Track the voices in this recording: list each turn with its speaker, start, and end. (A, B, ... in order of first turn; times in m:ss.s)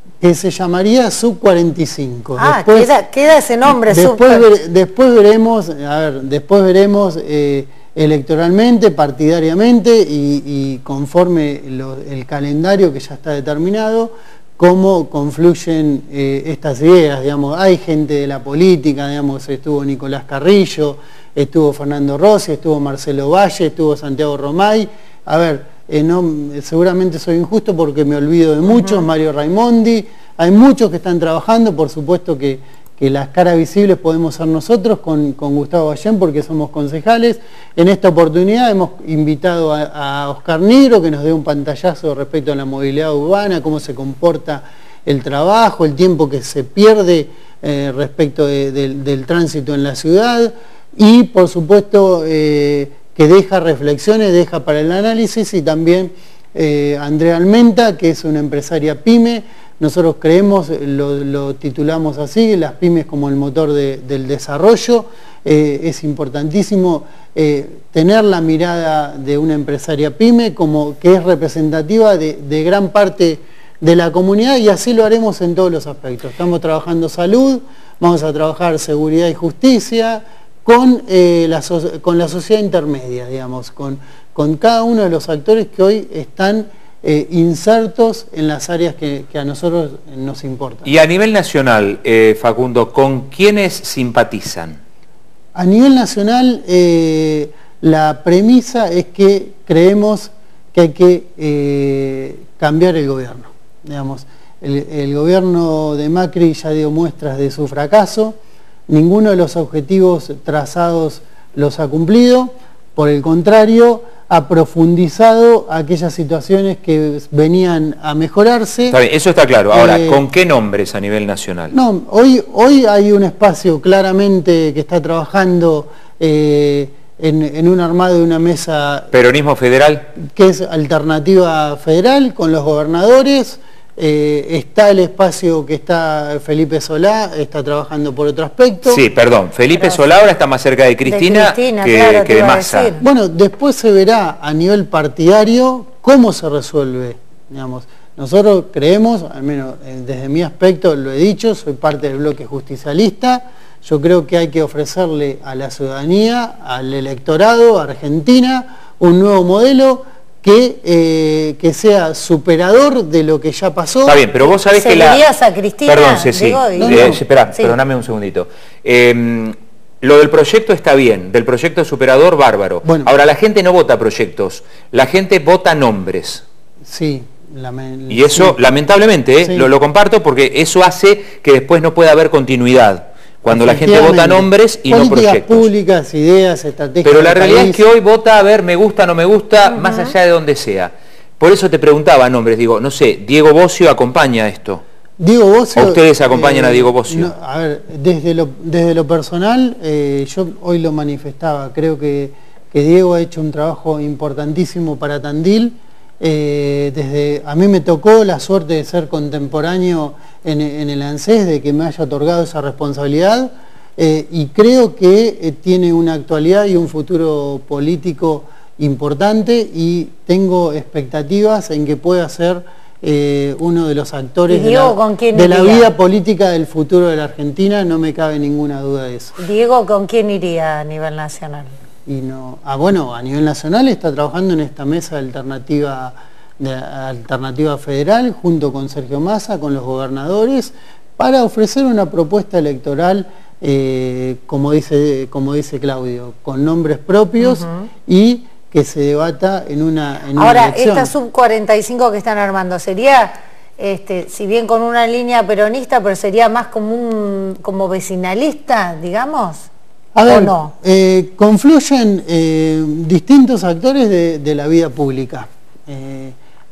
0:00.2-0:02.9 A
0:02.4-0:04.4 B
0:03.6-1:30.9 A
0:28.7-0:29.0 B
1:30.8-1:34.8 C
1:35.5-1:48.4 A
1:48.9-1:59.0 A
1:58.9-2:01.7 C
1:59.7-2:00.2 A
2:01.7-2:09.1 A
2:09.1-2:10.1 C
2:10.2-2:19.0 A
2:18.8-2:22.9 C
2:21.1-2:23.0 B
2:23.0-2:44.2 A
2:44.0-2:45.2 C
2:44.5-2:47.8 B
2:45.8-2:56.4 C
2:46.8-2:47.2 A
2:52.8-2:53.1 A
2:56.8-2:58.6 A
2:58.1-3:05.7 C
2:59.4-2:59.7 A
3:03.5-3:07.8 A
3:07.0-3:14.8 C
3:09.8-3:10.1 B
3:15.2-3:49.4 A
3:15.7-3:17.3 C
3:44.5-3:45.9 B
3:49.4-3:51.7 B
3:52.1-4:11.1 A
4:07.4-4:07.9 B
4:10.4-4:19.7 B
4:20.1-4:26.4 A
4:20.3-4:20.7 B